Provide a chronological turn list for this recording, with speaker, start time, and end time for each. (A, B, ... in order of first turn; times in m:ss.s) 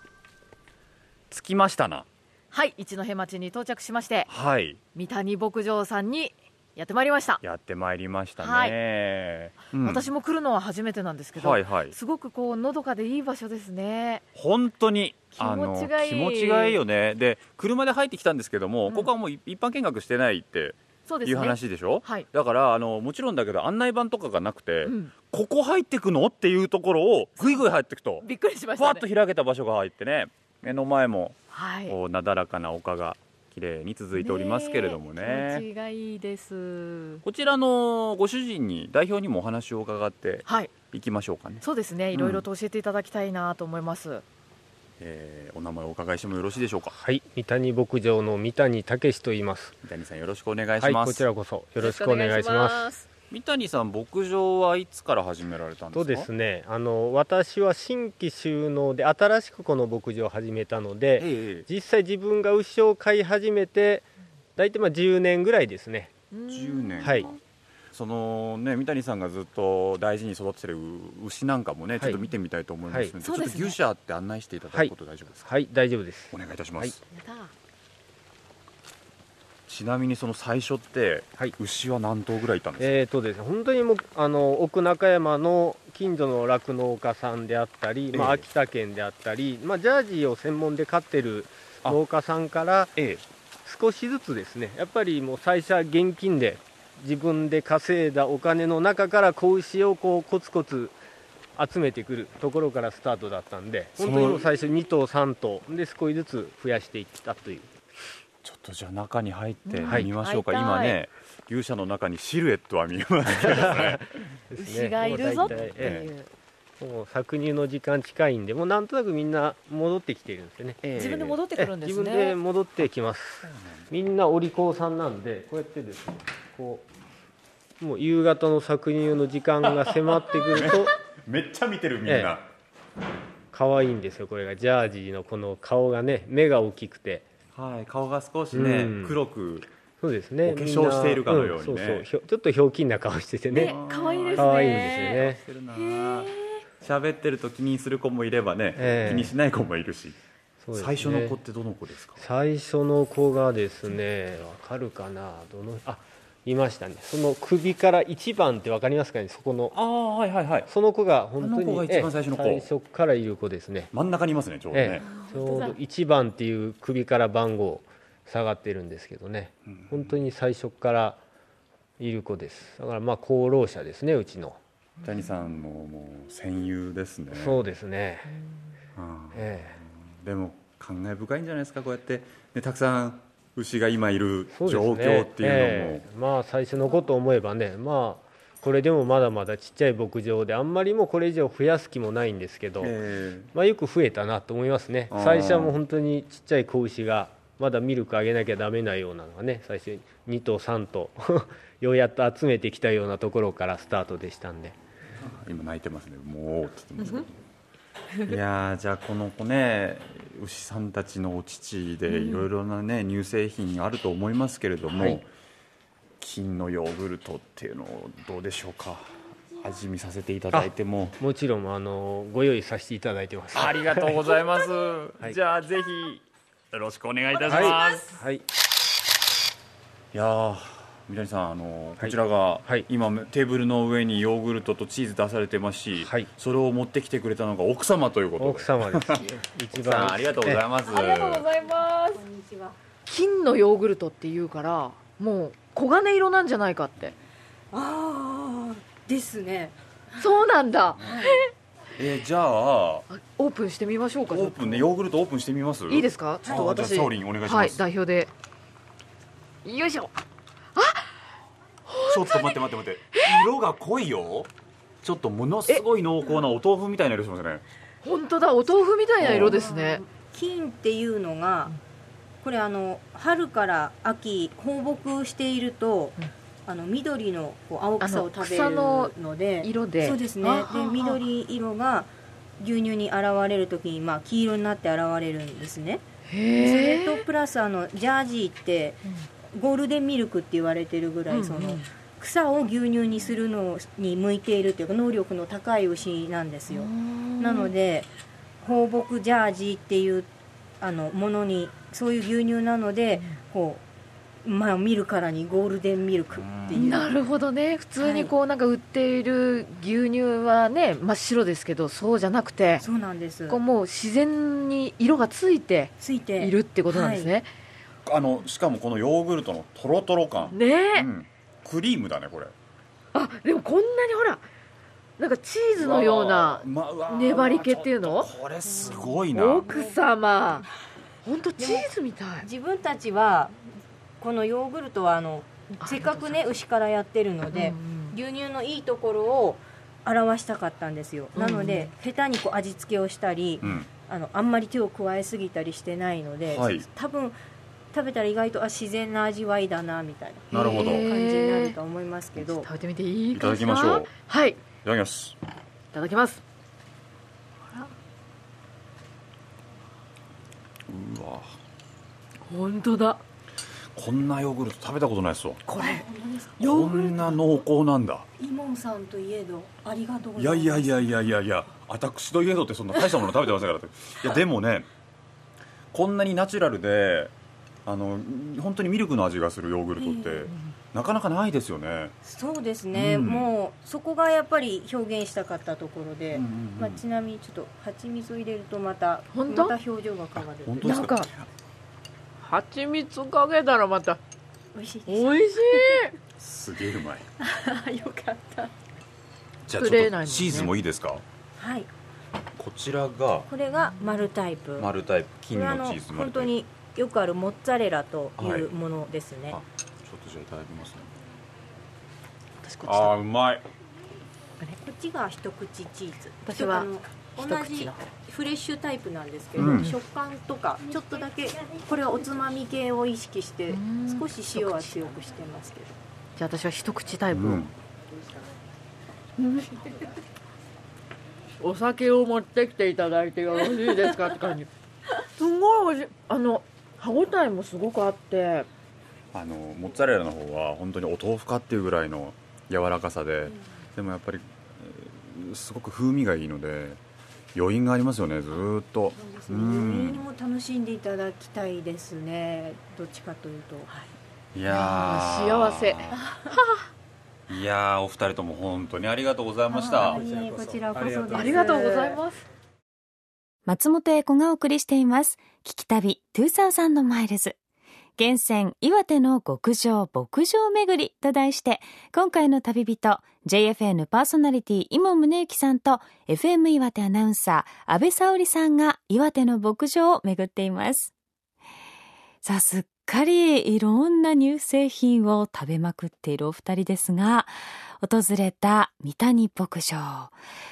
0:01.3-0:02.1 A
0:02.5-0:04.3 B
0:04.3-0:04.8 A
0:04.9-0:07.4 B
0:07.4-0:10.1 A
0:08.4-0:08.8 B
0:09.7-0:14.2 B
0:11.3-0:12.0 A
0:14.3-0:35.6 A
0:15.3-0:16.8 B
0:21.1-0:22.3 B
0:24.8-0:25.1 B
0:28.2-0:29.0 B
0:31.5-0:32.0 B
0:34.2-0:37.2 B
0:37.2-0:42.4 A
0:40.5-0:40.7 B
0:41.6-0:44.2 B
0:45.0-0:47.0 A
0:47.0-0:49.8 C
0:49.8-0:51.2 A
0:50.8-0:52.9 C
0:51.8-0:53.0 B
0:53.3-0:56.3 A
0:55.9-1:06.1 C
1:01.2-1:01.7 A
1:06.3-1:07.4 B
1:06.5-1:07.4 A
1:07.0-1:07.3 C
1:07.9-1:15.5 A
1:13.2-1:13.8 B
1:15.4-1:17.0 C
1:16.3-1:17.0 A
1:17.1-1:17.5 B
1:19.7-1:23.0 A
1:22.8-1:32.9 C
1:28.1-1:28.4 A
1:33.0-1:33.2 A
1:33.6-1:41.0 C
1:41.6-1:47.7 C
1:44.0-1:44.4 A
1:48.4-1:54.0 A
1:49.7-1:51.0 B
1:53.4-1:56.0 C
1:54.6-1:56.3 B
1:55.1-1:56.1 A
1:56.8-2:00.8 C
2:00.8-2:01.4 A
2:00.9-2:02.4 B
2:01.5-2:06.8 C
2:03.4-2:03.9 A
2:07.8-2:10.9 C
2:09.7-2:12.5 A
2:12.0-2:12.4 C
2:13.5-2:17.2 C
2:17.5-2:19.7 A
2:18.5-2:19.2 C
2:20.0-2:23.8 C
2:20.4-2:22.1 A
2:23.5-2:26.6 B
2:23.5-2:30.2 A
2:24.3-2:25.4 C
2:28.8-2:29.3 C
2:30.6-2:31.4 C
2:30.7-2:32.2 A
2:32.2-2:39.7 C
2:39.7-2:40.7 A
2:40.7-2:43.9 C
2:41.4-2:42.7 A
2:43.9-2:45.0 A
2:44.7-2:51.2 C
2:49.6-2:50.1 A
2:52.0-2:54.6 C
2:55.0-2:57.6 A
2:57.3-2:58.3 C
2:58.9-3:06.0 A
2:59.3-2:59.8 C
3:04.5-3:13.0 C
3:12.8-3:13.5 A
3:13.5-3:24.8 C
3:15.1-3:15.8 A
3:25.2-3:27.4 A
3:28.2-3:35.3 A
3:32.1-3:32.4 B
3:36.2-3:41.2 A
3:40.5-3:44.2 C
3:43.5-3:48.2 A
3:47.5-3:48.4 C
3:50.1-4:01.5 A
3:56.0-3:56.3 C
3:58.4-4:00.6 C
4:00.8-4:02.2 B
4:01.8-4:02.8 D
4:03.0-4:07.1 B
4:07.7-4:10.2 D
4:10.2-4:11.5 B
4:11.0-4:11.4 D
4:12.0-4:13.1 A
4:13.1-4:14.9 B
4:14.3-4:17.8 A
4:15.9-4:18.3 B
4:19.6-4:20.1 B
4:20.7-4:21.1 B
4:21.9-4:23.5 B
4:22.0-4:24.5 A
4:25.0-4:27.6 A
4:28.0-4:30.0 B
4:29.2-4:29.6 A
4:29.2-4:31.8 D
4:32.4-4:46.0 D
4:38.0-4:41.2 B
4:46.3-4:47.2 B
4:46.6-4:49.0 D
4:49.5-4:58.1 D
4:51.3-4:51.9 B
4:56.7-4:57.7 B
4:58.6-5:03.8 D
5:04.4-5:07.1 D
5:06.3-5:06.9 A
5:06.7-5:12.9 B
5:08.0-5:08.3 D
5:12.8-5:13.6 D
5:13.5-5:17.5 B
5:16.0-5:17.3 D
5:18.0-5:22.5 A
5:20.5-5:21.1 B
5:23.1-5:24.4 B
5:25.2-5:28.3 B
5:25.8-5:29.7 A
5:28.8-5:29.1 D
5:28.8-5:30.7 B
5:29.7-5:30.0 D
5:31.2-5:32.5 B
5:31.6-5:31.9 D
5:32.4-5:33.5 D
5:34.2-5:47.4 D
5:35.8-5:36.4 B
5:37.5-5:38.2 B
5:41.3-5:41.9 B
5:43.6-5:43.9 A
5:46.4-5:46.8 A
5:47.9-5:52.7 D
5:50.5-5:51.1 A
5:50.5-5:51.8 B
5:52.6-5:54.6 B
5:53.3-5:54.1 A
5:54.8-5:55.4 A
5:55.9-5:56.4 B
6:00.9-6:01.5 A
6:02.5-6:03.2 B
6:03.9-6:05.6 A
6:05.6-6:06.0 B
6:05.8-6:06.8 D
6:06.6-6:08.3 A
6:06.6-6:07.4 B
6:08.4-6:11.0 D
6:10.4-6:14.9 A
6:15.9-6:17.3 A
6:17.8-6:22.1 A
6:20.0-6:20.5 D
6:22.2-6:31.0 D
6:22.9-6:23.5 A
6:26.3-6:27.0 A
6:29.3-6:29.8 B
6:30.4-6:31.4 A
6:30.8-6:31.3 B
6:32.4-6:34.2 B
6:34.7-6:36.1 D
6:35.1-6:36.1 B
6:36.4-6:37.3 A
6:37.4-6:38.7 D
6:39.6-6:41.2 A
6:39.8-6:40.7 B
6:41.6-6:41.9 D
6:42.6-6:43.5 A
6:43.5-6:44.9 D
6:44.8-6:46.5 A
6:45.5-6:49.6 D
6:48.4-6:48.7 A
6:49.5-6:51.1 A
6:52.6-6:53.1 B
6:52.8-6:53.7 A
6:54.8-7:05.9 D
6:56.4-6:58.0 B
6:59.6-6:59.9 A
6:59.6-6:59.9 B
7:03.7-7:05.0 B
7:06.4-7:07.7 B
7:07.3-7:07.7 A
7:09.4-7:10.0 B
7:11.6-7:14.7 B
7:15.2-7:18.7 B
7:19.3-7:27.0 A
7:27.5-7:30.3 A
7:29.2-7:33.9 D
7:34.5-7:36.1 A
7:34.7-7:36.8 B
7:37.5-7:40.3 A
7:39.7-7:42.2 D
7:41.3-7:42.4 B
7:43.6-7:47.6 E
7:48.2-8:01.1 E
8:02.4-8:10.4 E